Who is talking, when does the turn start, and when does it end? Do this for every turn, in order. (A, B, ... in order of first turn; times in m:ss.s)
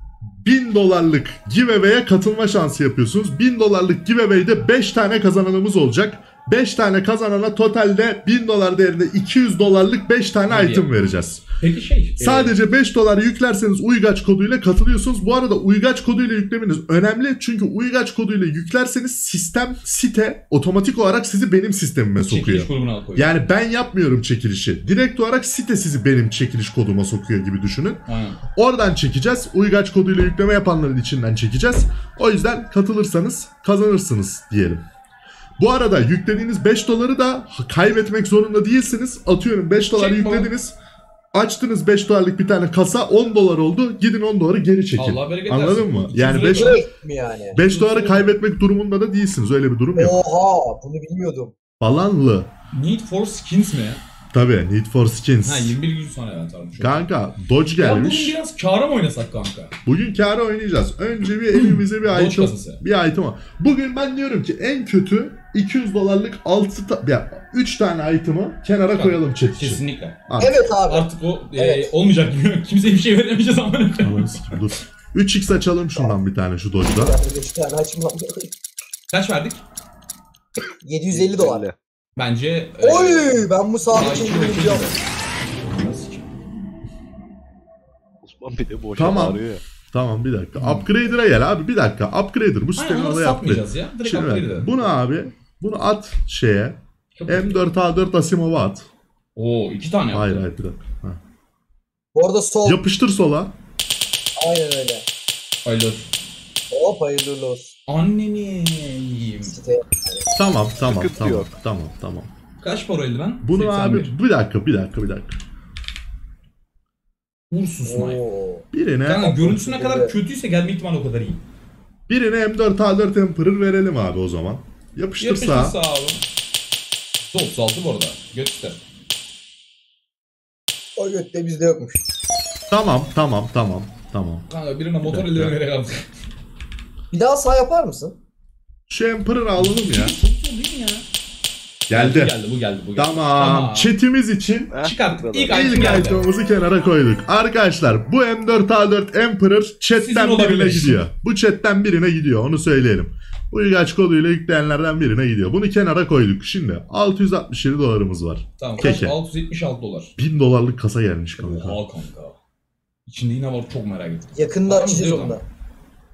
0:00.4-0:11.4 A
0:10.5-0:10.9 B
0:11.6-0:12.6 B
0:12.2-0:34.8 A
0:22.2-0:23.3 B
0:28.1-0:28.4 B
0:35.6-0:40.7 A
0:39.9-0:40.5 B
0:41.3-0:46.8 A
0:45.0-0:46.8 B
0:46.5-0:47.6 C
0:47.5-0:50.2 A
0:47.6-0:48.3 B
0:50.0-0:51.5 C
0:51.8-0:52.5 A
0:52.7-0:54.0 B
0:54.3-0:55.8 A
0:55.4-0:57.1 B
0:56.8-0:58.4 A
0:57.8-0:59.7 B
0:59.8-1:10.6 A
1:01.5-1:02.8 B
1:08.9-1:10.2 B
1:10.4-1:11.9 C
1:10.9-1:14.3 B
1:14.0-1:17.2 A
1:17.0-1:18.5 C
1:19.1-1:19.6 B
1:20.8-1:21.7 C
1:21.1-1:21.8 D
1:22.2-1:25.0 B
1:22.8-1:24.9 C
1:25.6-1:26.3 B
1:28.2-1:29.6 D
1:29.0-1:38.9 A
1:30.6-1:30.9 B
1:32.8-1:34.8 B
1:37.1-1:37.7 B
1:39.4-1:40.4 B
1:40.1-1:41.2 A
1:42.1-1:42.8 C
1:42.6-1:43.5 A
1:44.4-1:45.0 C
1:45.6-1:46.1 B
1:46.7-1:47.7 C
1:47.9-1:49.6 B
1:49.5-1:50.3 C
1:50.4-1:52.3 A
1:50.8-1:51.5 D
1:52.6-1:54.1 B
1:53.4-1:55.4 A
1:57.5-1:58.2 B
1:57.8-1:58.6 C
1:58.7-1:59.3 A
1:59.0-2:01.4 B
1:59.2-2:00.1 C
2:02.1-2:05.8 A
2:05.2-2:06.2 B
2:07.3-2:08.8 B
2:11.0-2:12.0 C
2:12.7-2:14.5 A
2:14.5-2:16.1 B
2:15.0-2:15.5 A
2:17.1-2:18.1 C
2:18.9-2:20.1 A
2:19.6-2:21.0 B
2:21.9-2:22.3 A
2:21.9-2:23.9 B
2:23.0-2:24.7 A
2:24.7-2:26.0 D
2:24.8-2:26.2 B
2:25.5-2:39.2 A
2:30.0-2:31.0 B
2:38.6-2:40.1 B
2:40.2-2:41.8 A
2:41.4-2:42.4 B
2:43.1-2:45.4 B
2:44.3-2:45.4 C